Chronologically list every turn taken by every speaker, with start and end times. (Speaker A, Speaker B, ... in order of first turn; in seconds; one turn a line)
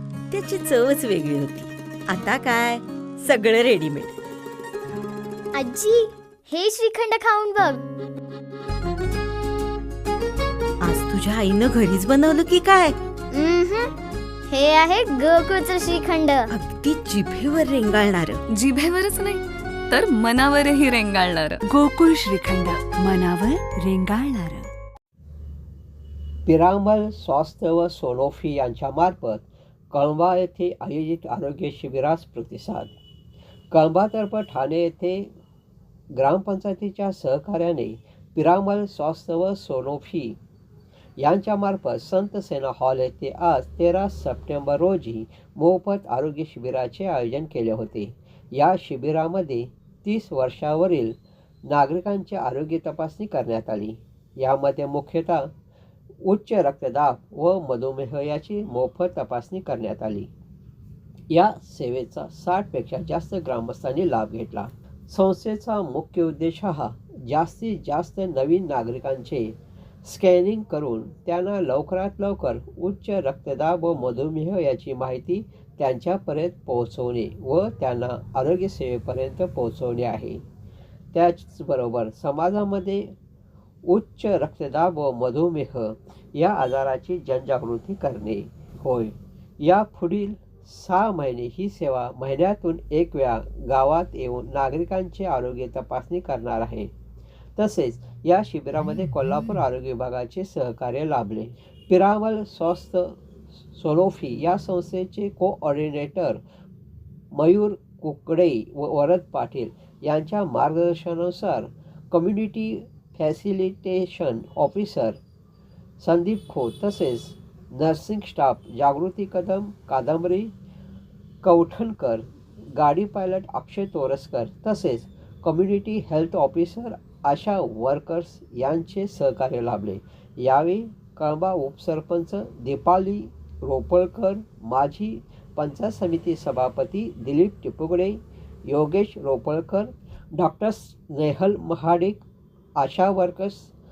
Speaker A: 0.3-4.2
Speaker B: 5.5-7.8
Speaker A: 10.8-13.0
Speaker B: 13.3-13.9
Speaker B: 14.5-16.5
Speaker A: 16.5-18.4
Speaker C: 18.5-21.6
Speaker D: 21.6-24.7
Speaker E: 26.4-32.9
Speaker E: 33.7-35.3
Speaker E: 36.1-40.4
Speaker E: 41.2-55.5
Speaker E: 56.2-60.3
Speaker E: 61.3-80.4
Speaker E: 81.1-83.1
Speaker E: 83.8-96.9
Speaker E: 97.5-103.2
Speaker E: 103.7-106.4
Speaker E: 107.3-115.2
Speaker E: 116.0-120.5
Speaker E: 121.4-142.2
Speaker E: 142.8-143.7